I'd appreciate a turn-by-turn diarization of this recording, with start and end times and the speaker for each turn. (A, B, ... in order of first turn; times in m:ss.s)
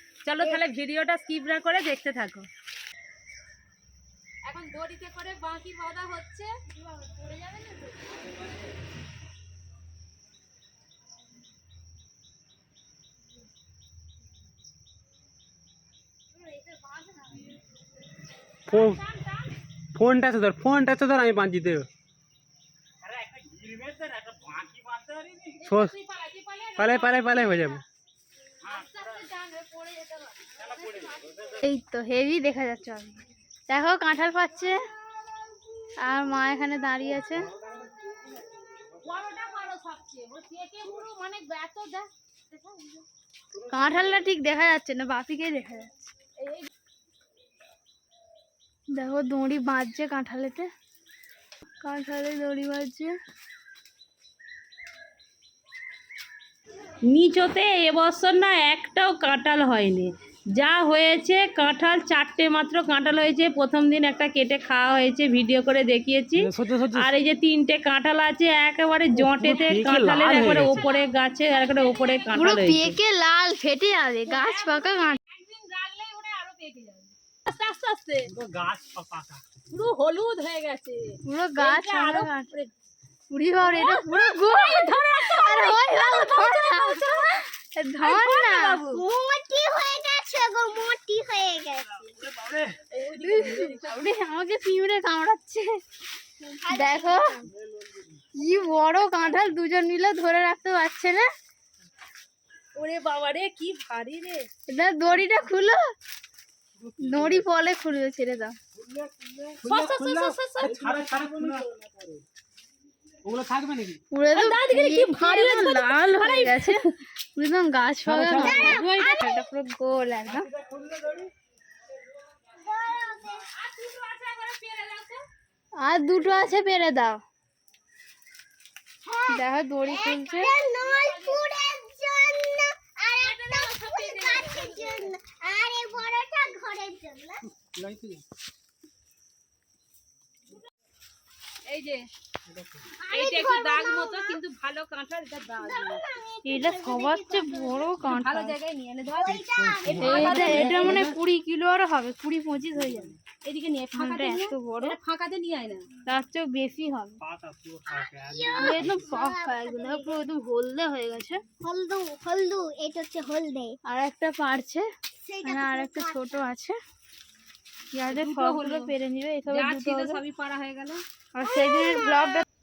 0:00.2-0:02.5 A
0:04.4-0:06.5 A
0:07.1-0:07.7 A
0:16.4-0:17.4 A
0:18.7-0:19.0 B
0:18.7-0:19.5 A
0:19.9-0:21.9 B
0:23.1-0:25.9 B
0:25.5-0:27.8 A
0:26.8-0:27.8 B
0:28.6-0:31.4 A
0:31.6-0:34.8 C
0:36.0-0:37.5 C
0:39.0-0:43.0 A
0:43.7-0:46.1 C
0:46.4-0:46.6 A
0:48.9-0:50.7 C
0:51.8-0:53.1 C
0:57.1-1:13.0 A
1:06.4-1:07.1 B
1:09.2-1:10.8 B
1:12.3-1:15.2 C
1:14.2-1:18.3 A
1:18.3-1:19.4 B
1:19.7-1:22.7 A
1:21.2-1:22.5 C
1:23.3-1:28.8 C
1:23.6-1:27.4 A
1:28.0-1:29.0 A
1:28.8-1:32.0 D
1:32.1-1:32.7 B
1:32.9-1:34.0 A
1:33.2-1:35.8 C
1:36.5-1:37.4 D
1:36.7-1:37.4 C
1:37.7-1:38.2 B
1:38.4-1:41.3 C
1:42.7-1:44.5 A
1:44.7-1:45.8 C
1:46.8-1:47.4 B
1:47.0-1:48.6 C
1:48.8-1:52.2 B
1:49.6-1:51.5 A
1:53.2-1:54.0 B
1:54.1-1:56.8 C
1:54.3-1:56.9 A
1:57.4-2:00.5 C
1:58.1-1:58.7 B
1:58.2-1:58.9 A
1:58.3-1:59.5 D
2:00.3-2:01.3 B
2:02.5-2:03.4 D
2:03.4-2:05.2 A
2:05.8-2:07.2 C
2:09.0-2:17.4 D
2:09.3-2:10.5 C
2:10.6-2:11.5 A
2:13.1-2:15.1 A
2:17.6-2:18.2 B
2:21.6-2:22.1 A
2:22.5-2:22.8 B
2:23.0-2:24.4 D
2:23.1-2:26.1 A
2:25.6-2:28.1 D
2:26.4-2:28.6 C
2:28.0-2:31.1 A
2:29.2-2:30.1 D
2:29.5-2:31.1 B
2:30.0-2:33.2 C
2:33.4-2:35.9 A
2:33.9-2:35.0 C
2:36.0-2:37.2 C
2:37.2-2:39.1 B
2:37.9-2:40.1 D
2:38.5-2:41.4 C
2:41.6-2:43.8 D
2:43.8-2:44.8 C
2:45.1-2:46.5 D
2:45.4-2:46.8 C
2:47.9-2:50.2 C
2:48.1-2:48.9 A
2:49.5-2:51.0 A
2:51.3-2:52.4 C
2:51.4-2:52.4 D